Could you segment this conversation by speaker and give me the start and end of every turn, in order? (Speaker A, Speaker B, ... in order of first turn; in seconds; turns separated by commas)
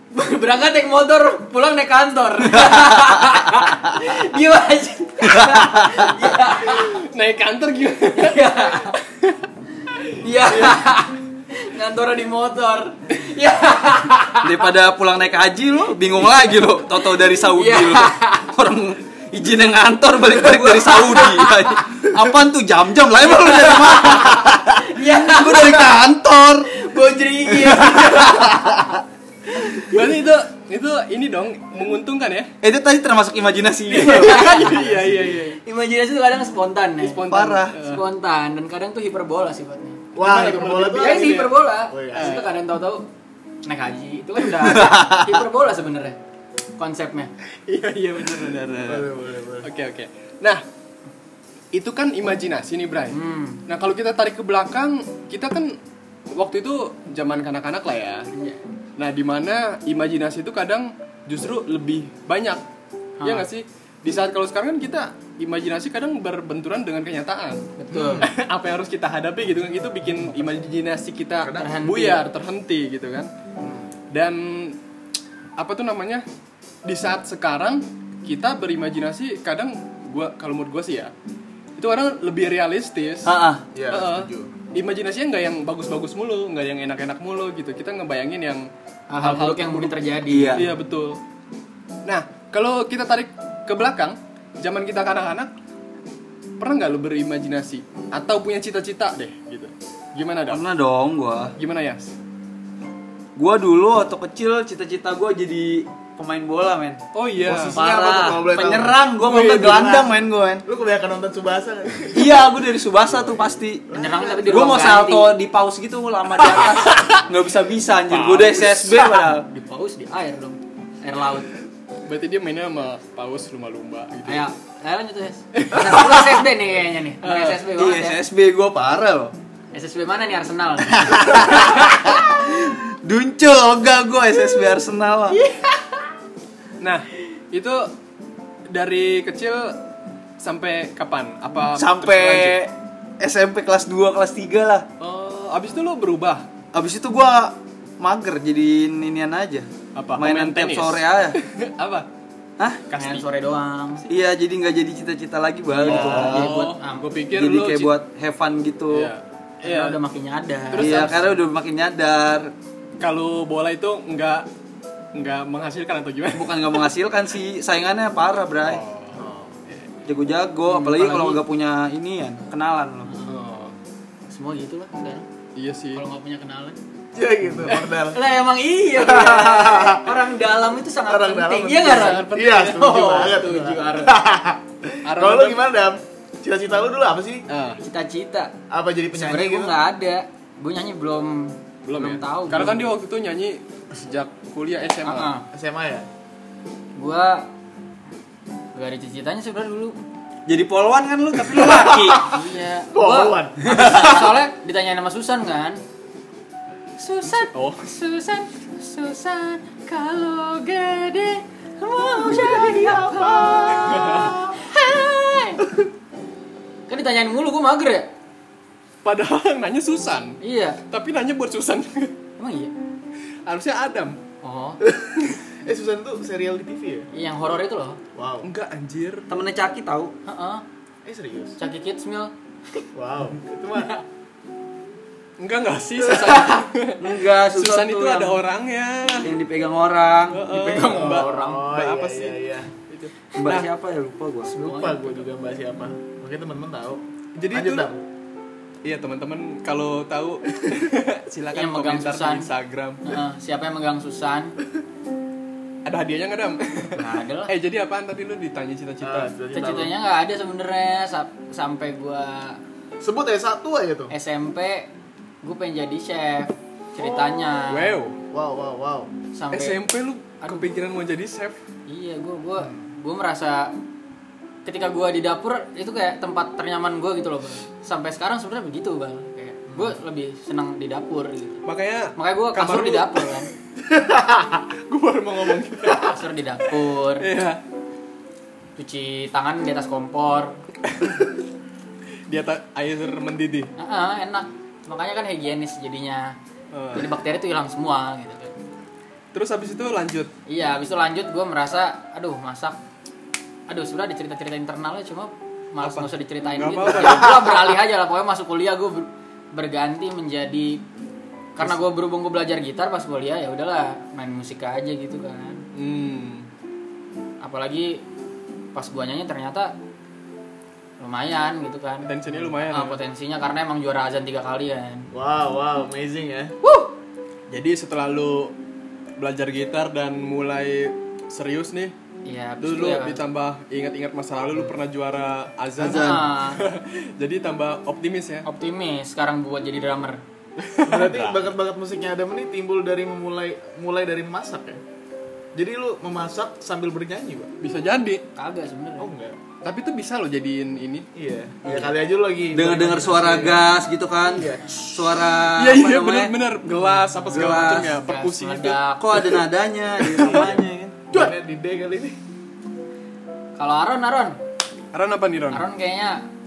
Speaker A: 0.1-7.0, Speaker B: 5.2-6.1, Speaker C: 6.5-9.4, Speaker A: 8.1-9.0, Speaker A: 10.2-14.6, Speaker B: 14.4-26.7, Speaker A: 17.5-18.5, Speaker A: 20.6-21.8, Speaker A: 23.2-26.0, Speaker A: 26.7-28.9, Speaker B: 27.7-28.8, Speaker A: 29.5-30.1, Speaker C: 29.7-32.5, Speaker B: 32.6-34.9, Speaker C: 33.9-35.6, Speaker A: 34.1-35.1, Speaker A: 35.6-37.3, Speaker C: 37.0-38.0, Speaker B: 37.3-37.8, Speaker A: 37.8-43.1, Speaker D: 40.1-42.4, Speaker C: 40.2-42.5, Speaker A: 43.6-46.2, Speaker B: 44.5-45.4, Speaker A: 46.8-47.3, Speaker C: 47.7-49.1, Speaker D: 48.8-49.7, Speaker C: 49.6-50.6, Speaker C: 51.7-55.7, Speaker A: 53.1-53.6, Speaker C: 56.3-58.3, Speaker A: 58.3-58.6, Speaker C: 59.0-62.6, Speaker A: 63.2-63.5, Speaker C: 63.2-67.7, Speaker A: 67.8-68.3, Speaker D: 67.9-68.3, Speaker C: 68.2-73.3, Speaker D: 71.4-71.7, Speaker A: 71.5-72.2, Speaker D: 73.6-73.9, Speaker C: 74.1-74.8, Speaker C: 75.6-76.2, Speaker C: 76.8-81.1, Speaker C: 81.8-83.3, Speaker B: 83.2-83.6, Speaker D: 83.7-84.5, Speaker C: 83.9-88.7, Speaker A: 89.1-90.7, Speaker C: 89.2-89.9, Speaker B: 90.3-90.7, Speaker C: 90.5-91.2, Speaker C: 92.0-95.5, Speaker C: 96.6-100.6, Speaker B: 100.5-101.5, Speaker C: 101.6-102.1, Speaker B: 103.3-107.0, Speaker C: 107.1-107.8, Speaker D: 107.4-112.5, Speaker B: 107.7-110.6, Speaker C: 109.2-109.7, Speaker B: 112.1-113.9, Speaker D: 113.1-114.7, Speaker A: 113.9-115.3, Speaker B: 114.4-119.5, Speaker C: 116.4-117.2, Speaker C: 118.1-118.8, Speaker A: 119.5-121.5, Speaker C: 122.0-124.5, Speaker A: 124.2-128.2, Speaker C: 125.5-126.4, Speaker C: 127.2-127.6, Speaker B: 127.8-129.3, Speaker A: 129.7-131.7, Speaker B: 130.9-135.4, Speaker A: 135.4-135.8, Speaker C: 136.8-137.9, Speaker C: 138.7-139.8, Speaker C: 140.4-142.6, Speaker B: 141.8-144.9, Speaker C: 145.0-146.5, Speaker B: 146.7-151.4, Speaker C: 149.9-152.1, Speaker C: 152.9-153.2, Speaker A: 152.9-154.1, Speaker B: 154.1-156.5, Speaker A: 155.8-157.1, Speaker C: 155.8-157.9, Speaker D: 155.9-156.2, Speaker B: 157.3-159.1, Speaker C: 158.9-160.0, Speaker A: 159.6-161.2, Speaker C: 160.7-161.4, Speaker B: 160.7-162.5, Speaker C: 163.0-164.5, Speaker C: 165.1-166.8, Speaker B: 166.3-168.8, Speaker C: 168.6-169.9, Speaker D: 169.1-169.5, Speaker B: 170.0-173.1, Speaker A: 170.7-171.4, Speaker A: 173.1-173.4, Speaker C: 173.3-173.7, Speaker A: 174.3-175.2, Speaker C: 175.6-176.0, Speaker A: 175.9-176.8, Speaker D: 177.1-178.2, Speaker A: 178.1-184.1, Speaker D: 178.9-180.1, Speaker D: 181.1-187.4, Speaker C: 181.8-183.4, Speaker C: 185.1-185.6, Speaker C: 187.5-187.8, Speaker A: 187.8-188.5, Speaker D: 188.7-189.8, Speaker A: 189.1-192.9, Speaker C: 191.8-195.3, Speaker A: 195.0-195.4, Speaker D: 195.5-196.1, Speaker A: 196.9-197.5, Speaker A: 198.7-200.0, Speaker B: 200.4-202.3, Speaker D: 201.5-202.3, Speaker A: 202.2-205.8, Speaker D: 202.9-204.1, Speaker B: 203.6-204.3, Speaker A: 207.0-215.7, Speaker C: 207.5-207.8, Speaker D: 212.3-214.5, Speaker C: 213.8-214.3, Speaker A: 216.9-218.1, Speaker C: 219.0-222.1, Speaker A: 220.4-220.8, Speaker A: 222.4-222.7, Speaker C: 223.4-224.2, Speaker A: 224.4-224.8, Speaker D: 224.8-227.1, Speaker A: 227.1-228.0, Speaker D: 228.1-228.5, Speaker C: 228.4-229.3, Speaker B: 229.3-230.1, Speaker A: 230.2-230.6, Speaker D: 231.0-231.6, Speaker A: 231.6-232.8, Speaker D: 232.9-233.9, Speaker C: 235.4-239.3, Speaker D: 236.0-236.6, Speaker B: 237.0-238.4, Speaker B: 239.2-240.5, Speaker C: 240.3-241.4, Speaker A: 240.5-242.2, Speaker D: 240.7-242.7, Speaker C: 242.1-242.3, Speaker C: 242.9-243.7, Speaker B: 243.3-244.5, Speaker D: 244.5-248.0, Speaker A: 244.5-245.2, Speaker C: 247.4-247.9, Speaker C: 248.8-253.0, Speaker A: 251.5-252.5, Speaker A: 253.0-254.5, Speaker C: 255.8-259.3, Speaker A: 256.9-257.5, Speaker D: 259.0-259.9, Speaker A: 259.5-262.6, Speaker D: 263.0-264.1, Speaker A: 264.1-264.9, Speaker A: 265.4-267.9, Speaker C: 267.7-268.2, Speaker D: 268.3-269.1, Speaker A: 269.3-269.8, Speaker C: 269.5-271.6, Speaker A: 270.4-270.7, Speaker A: 271.9-273.8, Speaker D: 272.6-272.9, Speaker A: 274.6-281.6, Speaker D: 279.7-279.9, Speaker C: 281.6-283.3, Speaker A: 282.1-283.5, Speaker D: 283.9-284.6, Speaker C: 284.9-286.1, Speaker A: 285.9-287.3, Speaker C: 287.2-287.6, Speaker A: 288.8-290.5, Speaker C: 290.9-291.3, Speaker C: 292.3-293.7, Speaker A: 293.8-296.4, Speaker C: 296.7-297.1, Speaker A: 296.9-298.5, Speaker C: 299.3-300.3, Speaker A: 300.5-302.8, Speaker A: 303.7-310.8, Speaker C: 305.8-307.7, Speaker D: 306.9-307.4, Speaker A: 311.6-315.6, Speaker C: 315.7-316.5, Speaker A: 317.4-318.0, Speaker A: 318.7-319.7, Speaker A: 321.0-325.1, Speaker C: 322.0-323.0, Speaker D: 325.1-326.5, Speaker A: 326.6-326.9, Speaker C: 327.5-328.5, Speaker C: 329.2-331.9, Speaker A: 332.2-333.2, Speaker C: 332.6-338.4, Speaker A: 335.8-336.6, Speaker A: 338.4-340.2, Speaker C: 340.6-341.5, Speaker D: 340.8-344.8, Speaker D: 345.5-347.5, Speaker C: 347.6-348.2, Speaker A: 348.4-349.1, Speaker D: 349.0-349.4, Speaker C: 349.6-351.1, Speaker D: 351.1-353.6, Speaker B: 351.6-351.9, Speaker B: 352.5-356.3, Speaker D: 354.2-354.8, Speaker C: 355.5-358.8, Speaker B: 357.3-357.9, Speaker A: 357.3-359.3, Speaker B: 359.0-361.2, Speaker C: 360.0-360.6, Speaker D: 360.2-360.6, Speaker D: 361.1-362.2, Speaker A: 363.6-364.4, Speaker C: 364.9-365.6, Speaker A: 365.5-366.2